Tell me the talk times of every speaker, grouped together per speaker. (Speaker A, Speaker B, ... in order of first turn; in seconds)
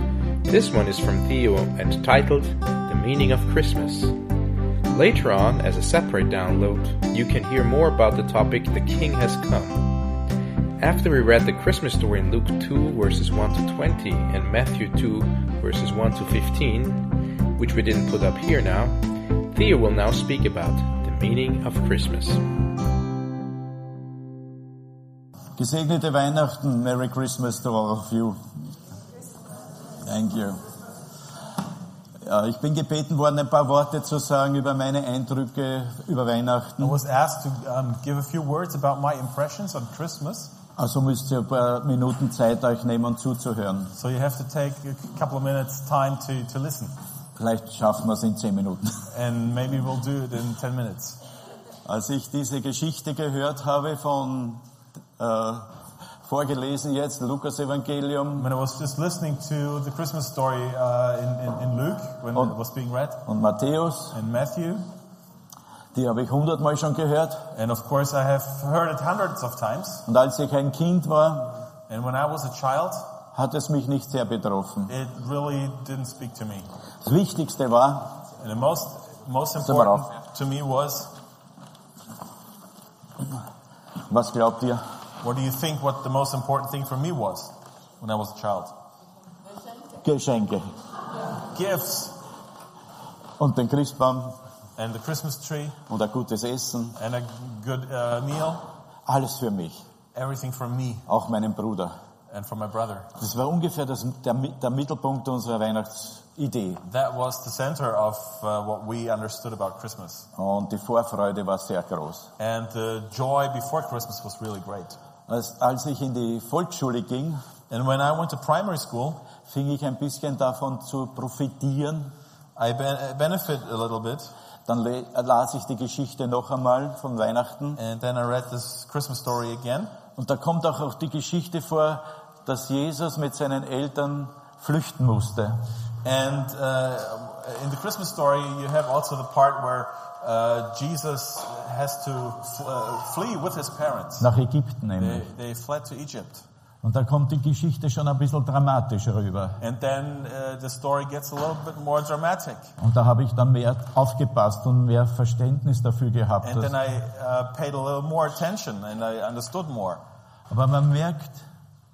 Speaker A: 0.5-4.2, 4.9-9.9, 10.8-22.4
Speaker B: 25.6-28.4, 30.0-30.6, 32.2-37.0, 40.8-43.9, 47.4-49.1, 51.9-54.6, 55.2-58.5, 63.3-64.2, 65.9-67.5, 70.1-71.7, 73.3-74.9, 77.0-78.2, 79.6-80.1, 84.0-84.9, 90.0-90.8, 93.4-94.4, 95.9-97.0, 99.1-99.8, 101.1-102.0, 103.2-106.8, 110.3-112.3, 115.3-117.4, 119.4-122.1, 124.7-127.8, 130.2-135.6, 144.2-145.3, 146.8-149.6, 152.8-156.7, 160.5-161.5
Speaker C: 36.8-40.6, 44.0-47.0, 49.1-51.2, 58.4-63.2, 64.1-64.9, 67.5-70.1, 71.9-73.2, 74.9-76.7, 78.4-81.2, 85.2-88.8, 91.4-92.2, 94.8-95.8, 97.0-98.7, 100.1-101.1, 102.3-103.1, 106.8-110.3, 112.4-115.0, 117.7-119.3, 122.6-124.3, 127.8-130.0, 136.0-144.3, 145.0-146.5, 149.6-152.7, 156.4-160.0